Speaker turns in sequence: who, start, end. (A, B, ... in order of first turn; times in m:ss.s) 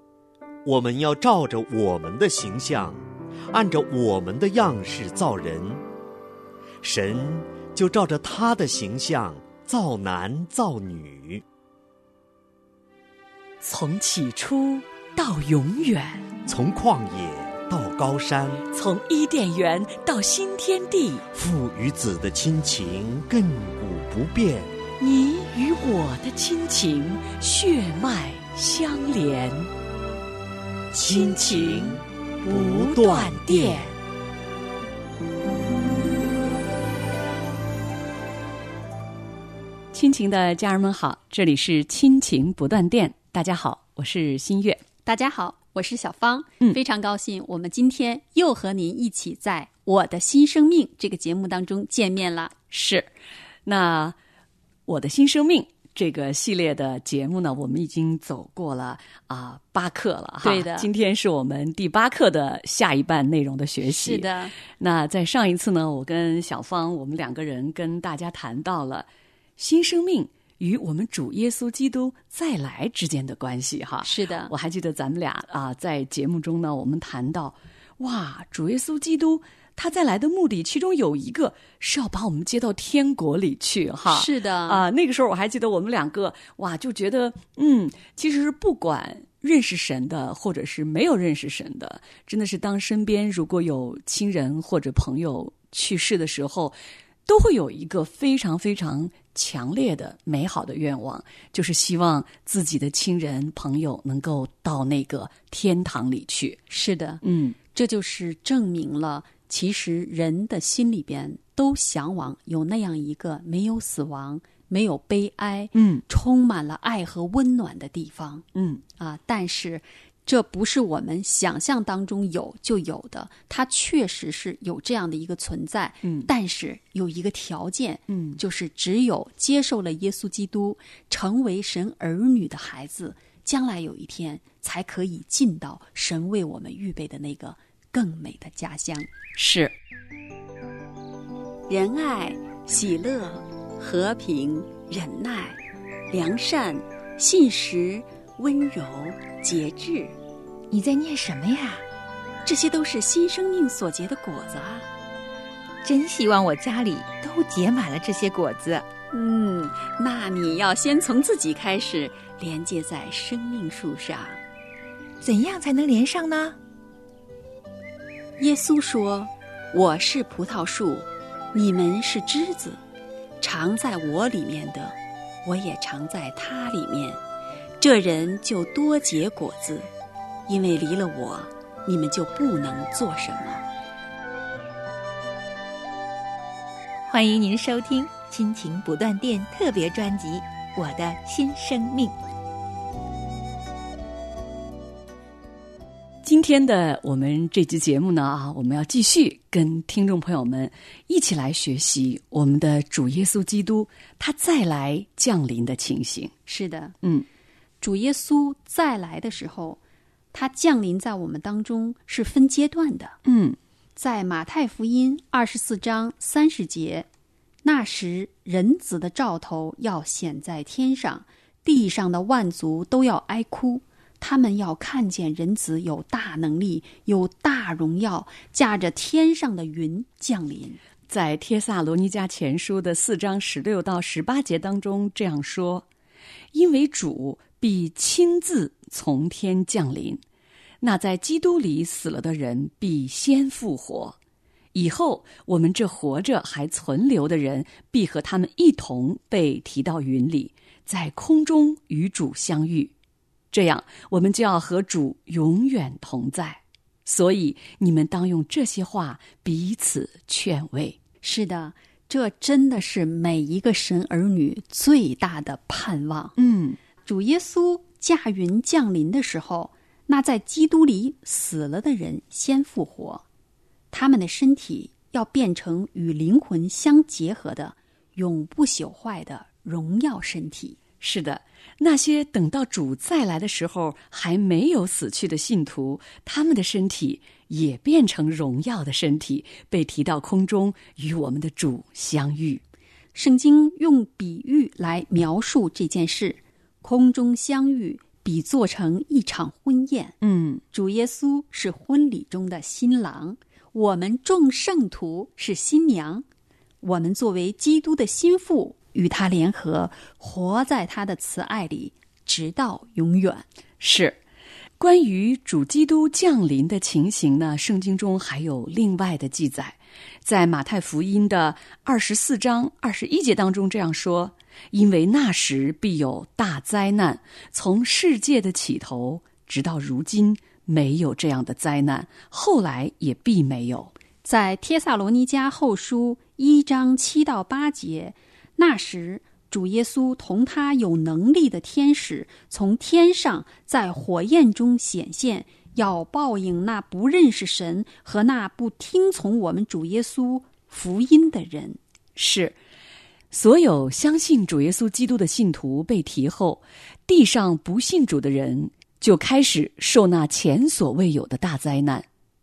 0:00.6-0:05.8 A
0:06.8-0:11.4 A
0:13.6-0:16.3 B
0:16.4-0:18.6 A
0:18.7-0:21.3 B
0:21.3-0:24.7 A
0:25.0-0:29.7 B
0:30.9-0:33.9 A
0:31.1-0:32.0 B
0:32.5-0:33.9 B
0:39.9-0:44.8 B
0:45.0-0:52.5 C
0:52.7-0:53.1 B
0:53.6-0:54.2 B
0:54.9-1:46.6 B
1:00.4-1:00.9 C
1:03.8-1:04.5 C
1:14.0-1:14.5 C
1:24.1-1:24.8 C
1:46.7-1:47.2 C
1:47.2-1:47.6 B
1:47.7-1:58.4 C
1:55.7-1:56.0 B
1:58.5-1:58.8 B
1:59.0-2:19.1 C
2:06.0-2:06.3 B
2:08.1-2:08.4 B
2:19.4-2:19.7 B
2:21.7-2:30.1 C
2:30.7-2:31.8 D
2:32.4-2:34.8 C
2:35.8-2:38.8 D
2:39.1-2:44.4 C
2:45.2-2:46.6 D
2:48.4-2:52.8 C
2:53.4-2:57.2 C
2:57.8-2:59.9 C
3:00.5-3:03.6 C
3:07.1-3:12.1 D
3:16.2-3:26.3 B
3:26.5-3:26.9 C
3:27.8-3:29.8 C
3:30.3-3:33.2 C
3:33.2-3:33.6 B
3:34.0-3:37.0 C
3:37.6-3:50.8 C
3:51.1-3:55.8 B
3:56.5-4:00.2 B
4:00.8-4:04.2 B
4:04.7-4:12.9 B
4:13.5-4:21.0 B
4:21.2-4:26.3 C
4:26.4-4:26.8 B
4:27.0-4:33.2 C
4:33.9-4:40.8 C
4:41.0-4:52.6 B
4:53.1-5:00.2 C
5:00.2-5:00.6 B
5:00.7-5:06.2 C
5:06.8-5:13.4 C
5:13.8-5:14.2 B
5:14.8-5:33.9 B
5:34.2-5:51.8 C
5:52.2-5:52.6 B
5:53.3-6:02.0 B